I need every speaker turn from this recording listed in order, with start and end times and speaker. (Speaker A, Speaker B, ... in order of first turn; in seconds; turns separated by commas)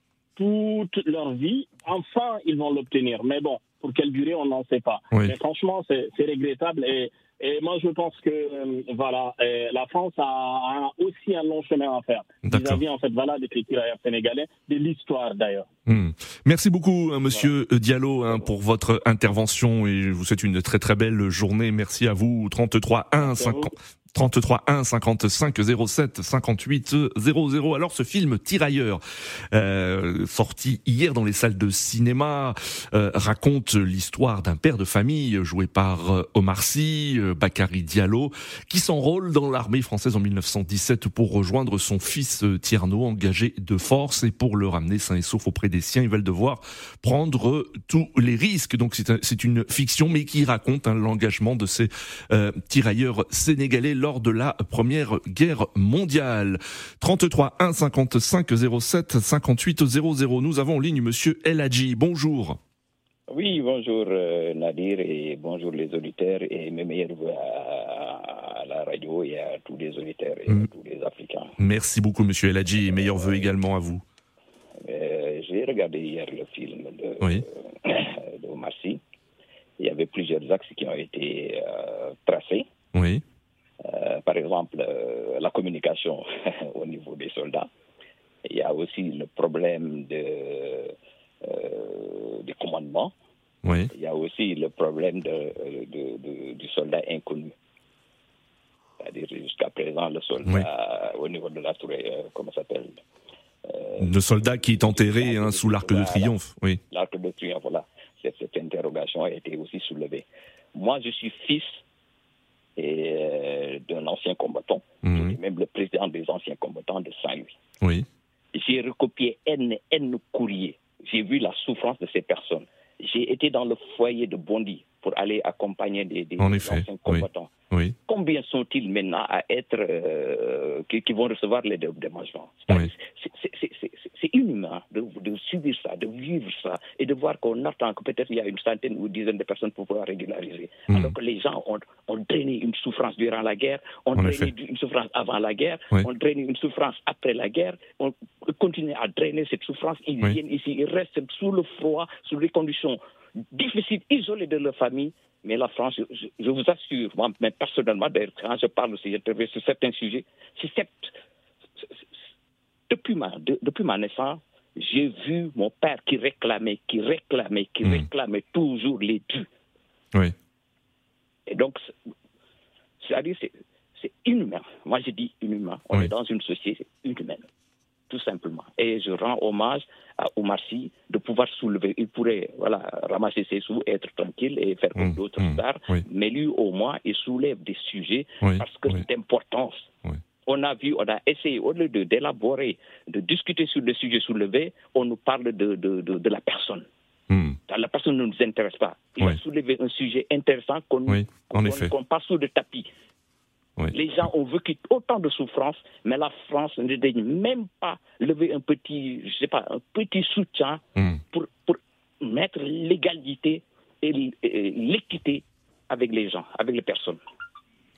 Speaker A: 0.3-15.7, Speaker B: 12.4-12.8, Speaker B: 15.9-62.6, Speaker A: 23.1-23.7, Speaker C: 63.3-71.5, Speaker B: 71.6-74.0, Speaker C: 74.8-79.0, Speaker C: 79.8-82.7, Speaker B: 82.9-83.2, Speaker C: 83.8-87.7, Speaker C: 88.5-93.1, Speaker B: 93.6-93.9, Speaker C: 93.9-97.5, Speaker C: 99.0-103.0, Speaker C: 103.7-106.3, Speaker B: 104.0-106.8, Speaker C: 106.9-111.8, Speaker C: 112.8-117.5, Speaker B: 115.0-115.4, Speaker B: 117.8-118.1, Speaker C: 118.5-127.5, Speaker B: 126.4-127.9, Speaker C: 128.1-153.0, Speaker B: 144.1-144.5, Speaker C: 153.5-161.1, Speaker C: 162.9-169.5, Speaker C: 171.5-171.8, Speaker C: 173.0-177.5, Speaker C: 178.1-189.9, Speaker B: 184.9-186.0, Speaker B: 188.4-189.0, Speaker C: 190.4-196.9, Speaker B: 197.3-197.6, Speaker C: 197.7-202.9, Speaker B: 201.1-201.9, Speaker C: 203.9-217.2